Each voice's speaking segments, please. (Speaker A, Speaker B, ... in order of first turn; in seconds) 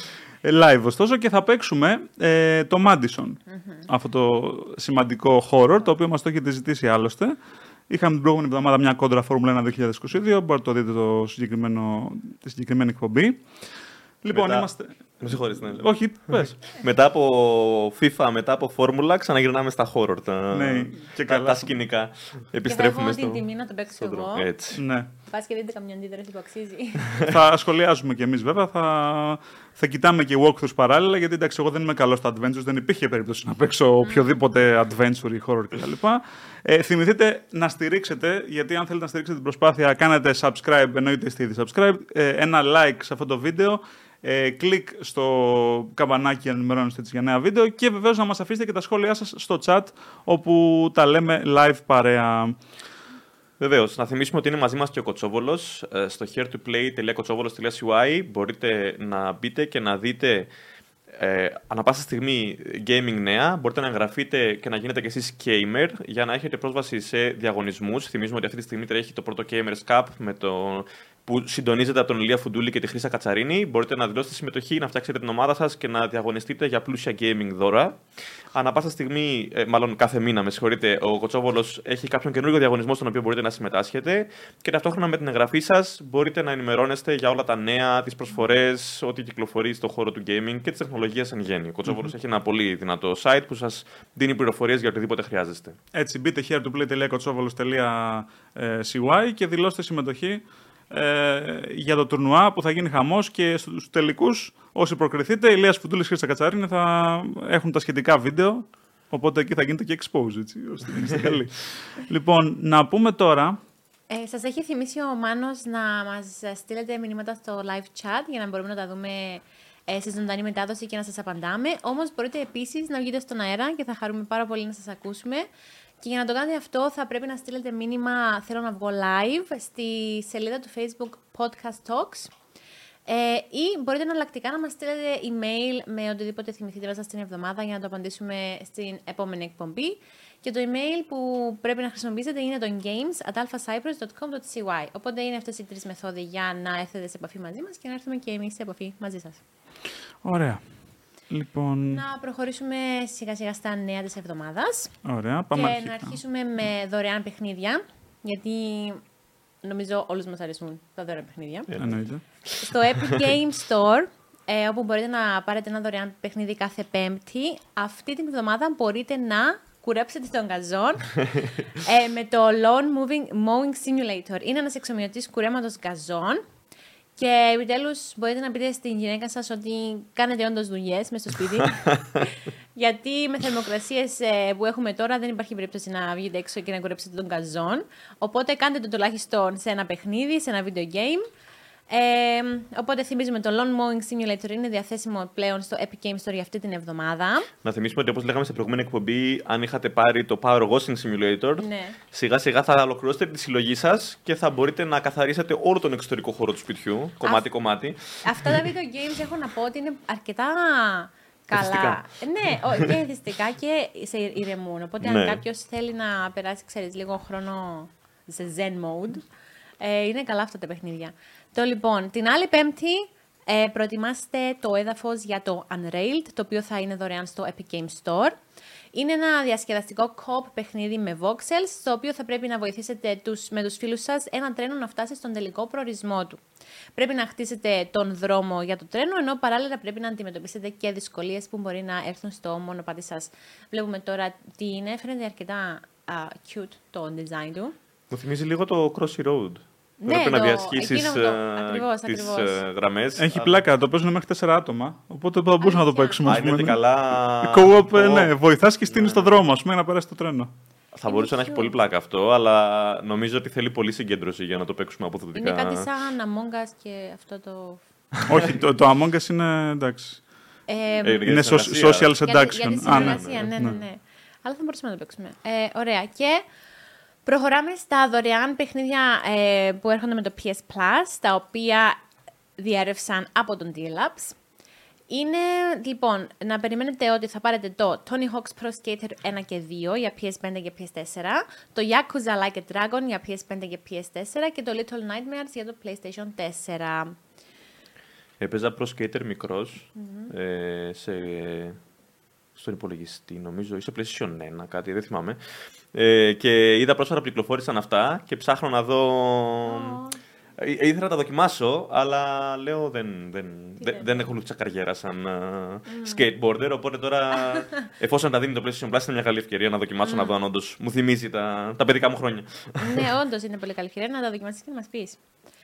Speaker A: 0.4-7.3, 7.9-13.4, 14.2-14.9, 15.8-16.6, 20.5-21.7, 24.7-25.1, 27.3-52.5, 95.9-113.6, 150.2-150.6, 151.3-152.0, 155.0-156.2, 161.8-162.2, 253.2-256.8, 257.4-260.5, 268.2-270.2, 271.2-273.8
Speaker B: 3.5-3.9, 22.6-24.5, 25.3-27.1, 34.0-34.3, 114.1-125.5, 126.0-132.3, 133.1-149.4, 151.9-154.9, 155.5-159.0, 159.6-161.7, 162.6-176.4, 177.2-191.2, 191.9-197.5, 201.6-202.0, 208.2-219.2, 219.8-228.4, 228.9-236.4, 236.9-247.7, 250.0-252.6, 255.6-256.2, 261.1-261.7, 265.3-267.8, 270.7-271.3, 272.2-276.4, 277.2-282.0, 282.6-284.4, 285.1-297.1, 299.9-300.3, 309.6-310.2, 313.8-314.1, 315.9-316.2, 317.5-317.8, 320.0-320.3, 322.8-325.2
Speaker C: 14.3-23.4, 24.0-24.8, 53.6-60.5, 61.1-78.0, 78.5-95.8, 162.5-163.2, 197.6-208.5, 211.5-212.0, 215.0-215.4, 248.1-253.6, 256.2-258.3, 258.9-259.4, 260.9-265.9, 268.1-268.6, 271.0-272.2, 272.8-273.5, 298.4-301.8, 302.5-305.4, 305.9-310.0, 310.6-323.1